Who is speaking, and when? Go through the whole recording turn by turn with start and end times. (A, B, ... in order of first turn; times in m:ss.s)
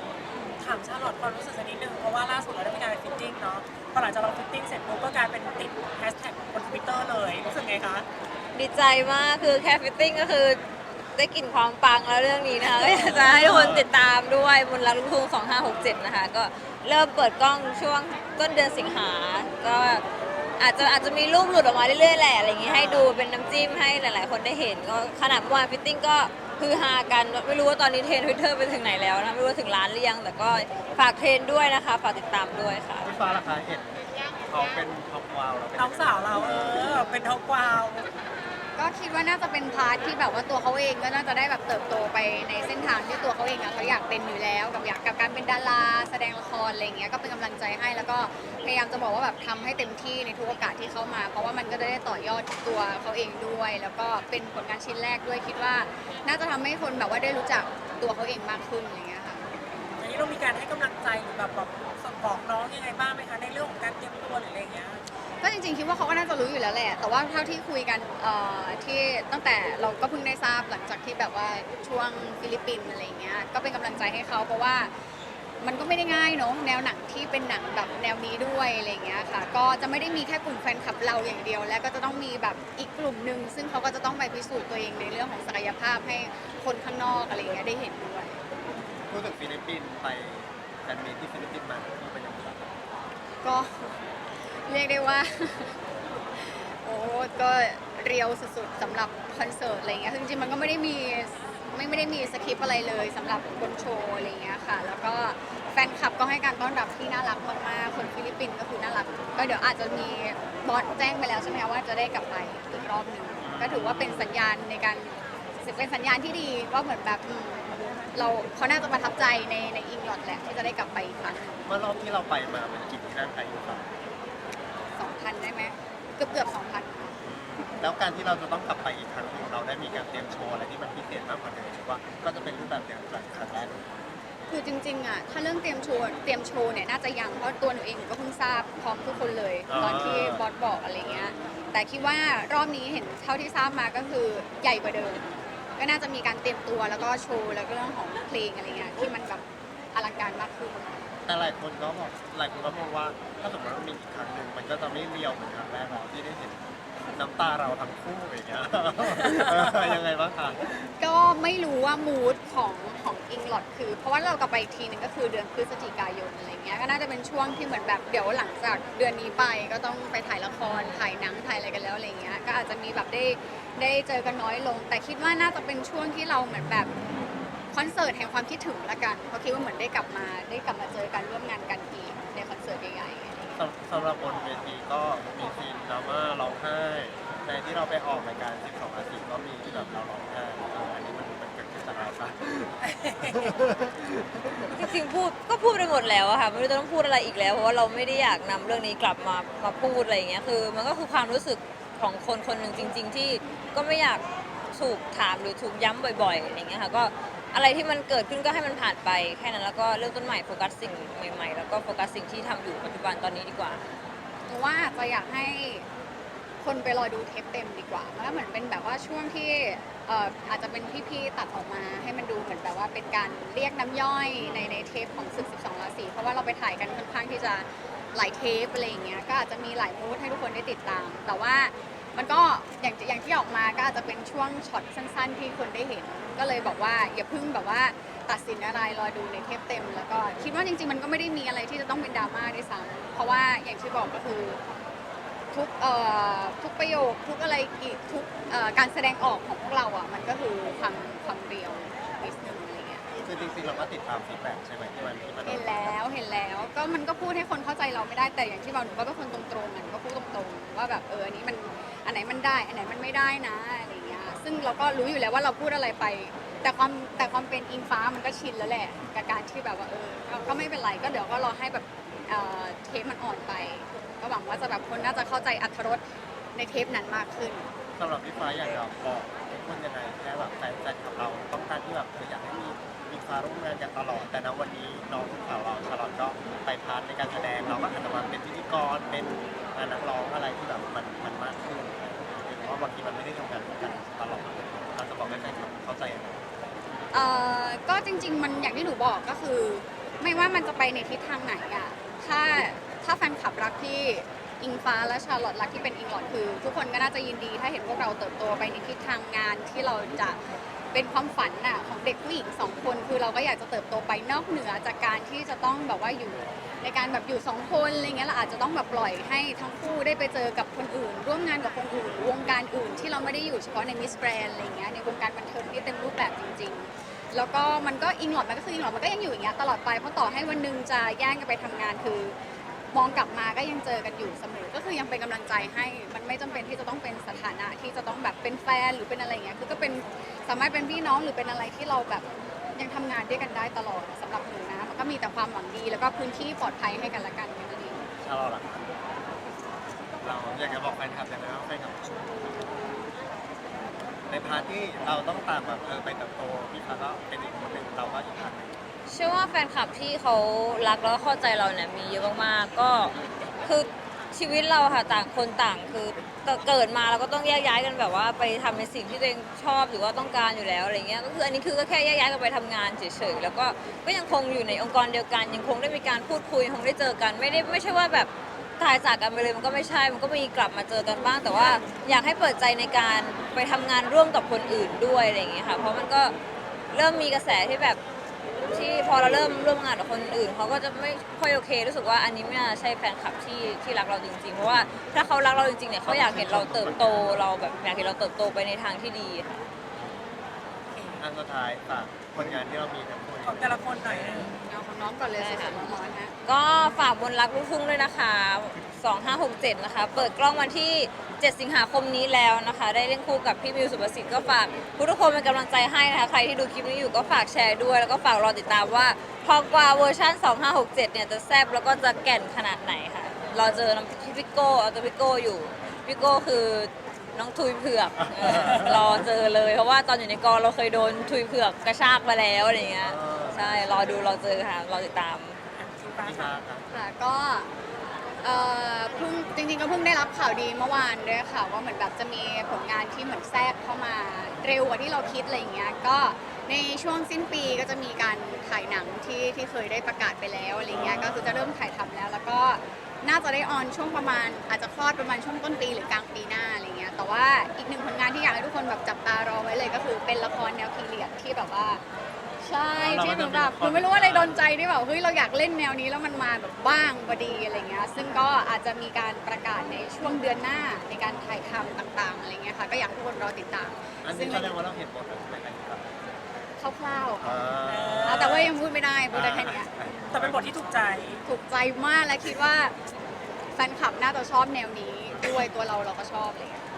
0:00.3-0:08.1 A
0:08.5-0:10.6 B
0:11.2-0:20.0 B
0:12.7-0:13.2 A
0:13.2-0:13.9 C
0:20.6-0:33.1 B
0:22.6-0:23.1 A
0:33.0-0:37.0 C
0:35.8-0:38.1 A
0:38.8-0:59.5 D
0:59.9-1:05.0 A
1:05.4-1:15.0 D
1:15.6-1:28.4 D
1:29.1-1:32.7 C
1:33.4-1:35.8 D
1:36.3-2:01.7 D
1:53.4-1:54.1 C
2:01.6-2:03.9 C
2:04.9-2:07.2 D
2:07.2-2:13.9 C
2:14.5-2:31.0 D
2:19.1-2:20.4 C
2:31.2-2:40.7 C
2:39.3-2:39.9 A
2:41.0-2:56.9 D
2:50.6-2:51.1 B
2:57.7-3:03.6 D
3:03.6-3:12.8 C
3:12.8-3:13.5 A
3:13.3-3:14.6 C
3:14.7-3:33.9 B
3:34.5-3:35.9 D
3:36.6-4:04.6 D
3:44.4-3:44.7 C
4:05.5-4:13.0 D
4:13.2-4:15.9 C
4:15.4-4:36.0 D
4:36.6-4:37.7 D
4:38.0-4:56.4 C
4:57.1-5:32.4 D
5:32.9-5:48.0 D
5:48.2-5:48.9 C
5:50.2-5:52.5 C
5:54.3-5:58.8 C
5:59.1-6:26.4 B
6:26.9-6:28.0 B
6:28.7-6:39.6 B
6:34.6-6:35.1 C
6:36.0-6:37.4 C
6:40.9-6:41.2 A
6:41.2-6:44.5 C
6:43.4-6:44.5 A
6:44.6-6:46.4 D
6:45.3-6:45.8 B
6:46.4-7:15.6 B
7:08.4-7:09.0 C
7:13.0-7:14.2 C
7:15.7-7:16.5 A
7:16.2-7:17.0 C
7:16.9-7:17.7 D
7:18.4-7:42.0 D
7:30.9-7:31.7 C
7:42.6-7:54.8 D
7:43.0-7:44.7 C
7:54.2-7:56.1 C
7:56.8-7:57.7 D
7:57.4-7:58.6 C
7:57.8-7:58.8 A
7:58.2-7:59.9 D
7:59.3-8:00.7 C
8:00.3-8:01.4 A
8:01.4-8:03.0 D
8:03.7-8:06.8 D
8:05.3-8:05.7 C